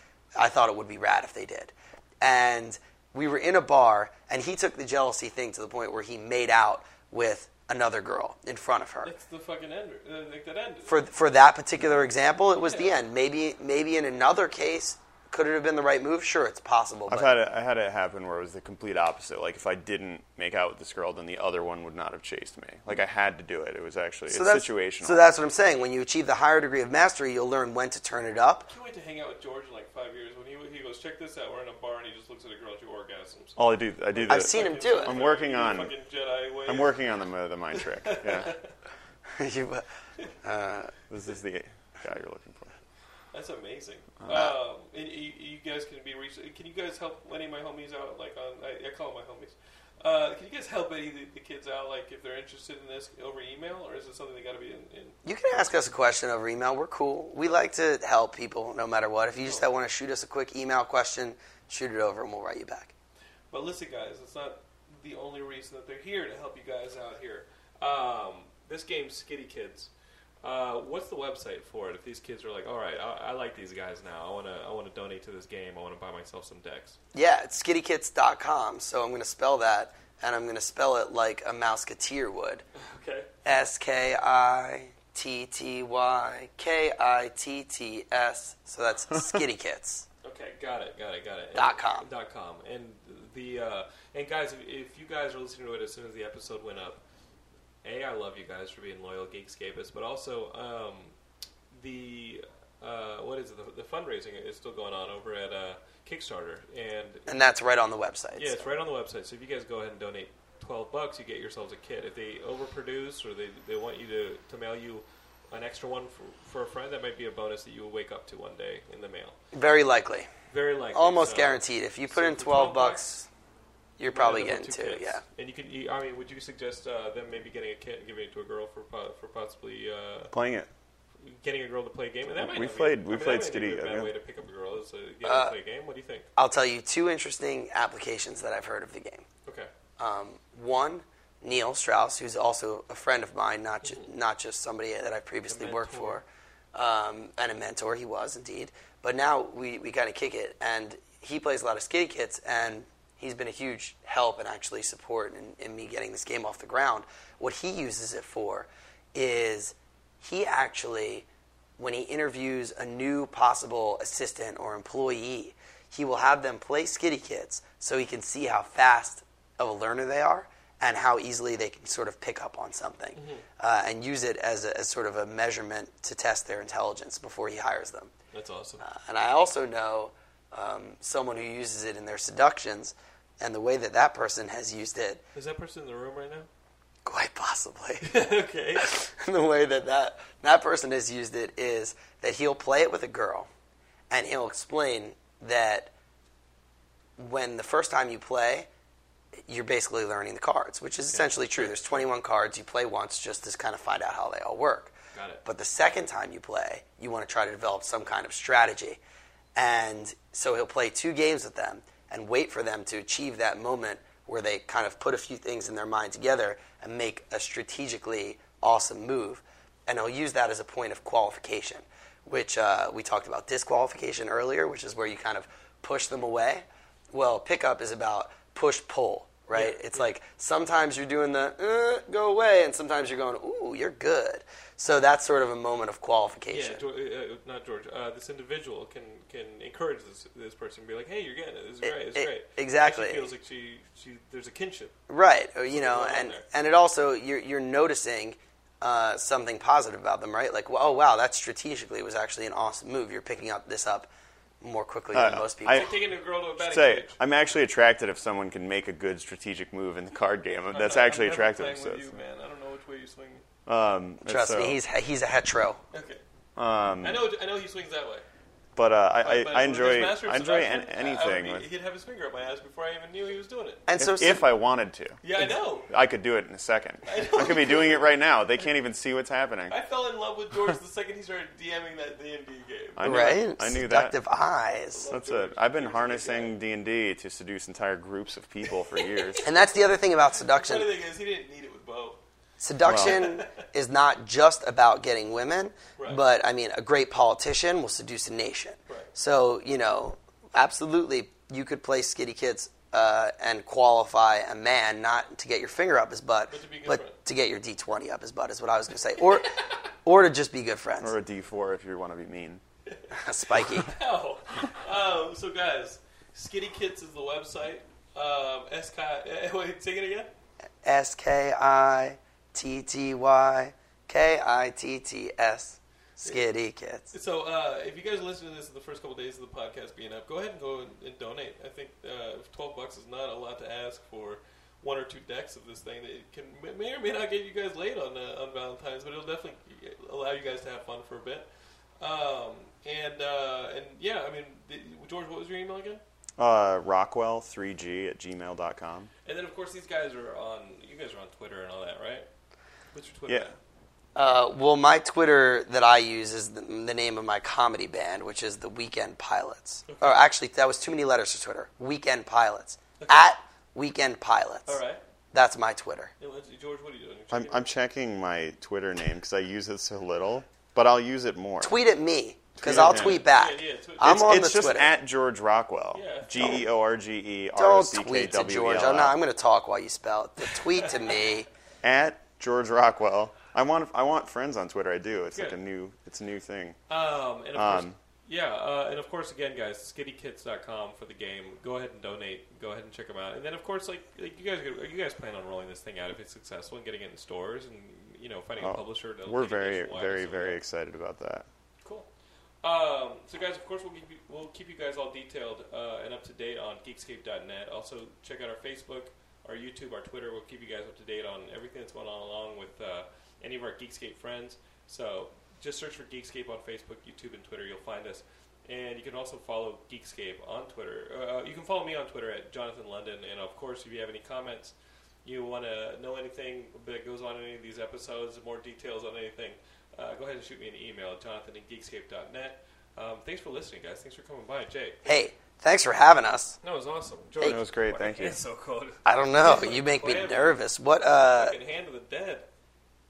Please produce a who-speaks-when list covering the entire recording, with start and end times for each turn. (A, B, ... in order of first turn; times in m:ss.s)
0:00.4-0:09.1 A
0:09.0-0:11.0 B
0:10.9-0:17.3 A
0:12.5-0:12.9 B
0:17.1-0:25.3 C
0:24.3-0:28.7 A
0:28.7-0:37.0 B
0:33.6-0:35.9 C
0:34.3-0:35.2 A
0:36.7-0:38.6 C
0:37.7-0:38.7 B
0:39.3-0:39.8 A
0:40.4-0:40.9 A
0:41.1-0:42.8 C
0:43.3-0:55.2 B
0:44.2-0:44.5 C
0:55.2-1:02.9 A
0:59.4-0:59.7 B
1:03.5-1:09.9 B
1:10.4-1:17.0 B
1:17.1-1:22.6 A
1:22.8-1:23.3 B
1:23.4-1:30.0 A
1:30.2-1:37.0 B
1:31.5-1:32.1 A
1:37.8-1:41.1 B
1:41.7-1:47.5 B
1:47.3-1:48.6 A
1:48.4-1:59.4 B
1:59.5-2:00.3 A
2:00.5-2:03.0 B
2:00.9-2:03.3 A
2:04.0-2:05.2 A
2:04.1-2:10.3 B
2:10.3-2:10.7 C
2:11.2-2:16.3 B
2:12.3-2:14.1 C
2:15.2-2:15.5 A
2:16.4-2:19.2 A
2:20.0-2:41.2 A
2:23.8-2:24.1 B
2:25.5-2:26.2 B
2:41.8-2:58.1 A
2:53.1-2:53.4 B
2:58.3-2:58.8 B
2:58.8-3:05.2 A
3:05.3-3:06.5 B
3:07.0-3:08.2 A
3:08.0-3:09.0 B
3:08.7-3:13.5 A
3:14.1-3:15.9 A
3:17.2-3:18.7 A
3:19.5-3:24.9 A
3:21.1-3:22.1 B
3:25.1-3:25.4 B
3:25.4-3:29.0 A
3:29.6-3:56.8 A
3:49.5-3:50.0 B
3:56.5-4:04.9 B
4:02.0-4:03.3 A
4:05.1-4:14.1 A
4:05.7-4:06.4 B
4:14.6-4:15.9 A
4:15.1-4:16.0 C
4:15.7-4:17.2 B
4:16.6-4:22.1 C
4:20.7-4:23.4 B
4:23.6-4:24.8 C
4:24.2-4:25.8 A
4:25.9-4:26.2 B
4:26.6-4:27.2 C
4:27.0-4:28.2 B
4:28.8-4:31.7 C
4:29.2-4:33.8 B
4:33.9-4:34.4 A
4:34.0-4:35.2 C
4:35.2-4:35.9 B
4:35.9-4:39.7 C
4:37.0-4:38.1 B
4:39.7-4:43.4 B
4:43.0-4:44.2 C
4:43.0-4:45.1 A
4:44.9-4:46.6 B
4:45.1-4:49.4 C
4:48.7-4:52.2 B
4:49.4-4:50.9 A
4:52.6-5:11.1 A
4:52.8-4:53.2 C
4:52.9-4:53.6 B
5:06.5-5:07.2 B
5:11.0-5:12.6 C
5:12.9-5:20.3 B
5:13.1-5:13.9 A
5:20.8-5:27.1 A
5:27.1-5:41.5 B
5:42.0-5:46.0 B
5:46.4-5:49.1 C
5:49.2-5:52.3 B
5:52.9-5:53.6 B
5:54.1-6:04.8 A
5:59.9-6:00.3 B
6:03.0-6:03.3 B
6:04.7-6:05.0 B
6:05.3-6:06.1 A
6:06.2-6:07.7 B
6:07.3-6:11.7 C
6:11.6-6:14.9 A
6:12.6-6:13.2 C
6:12.6-6:14.7 B
6:14.0-6:19.2 C
6:15.9-6:16.6 B
6:17.6-6:21.5 A
6:21.8-6:26.8 C
6:25.3-6:25.6 B
6:26.9-6:40.6 B
6:27.5-6:28.0 C
6:38.6-6:41.5 C
6:42.6-7:15.1 B
7:15.0-7:16.6 A
7:16.6-7:22.5 B
7:17.4-7:18.4 C
7:19.0-7:21.6 A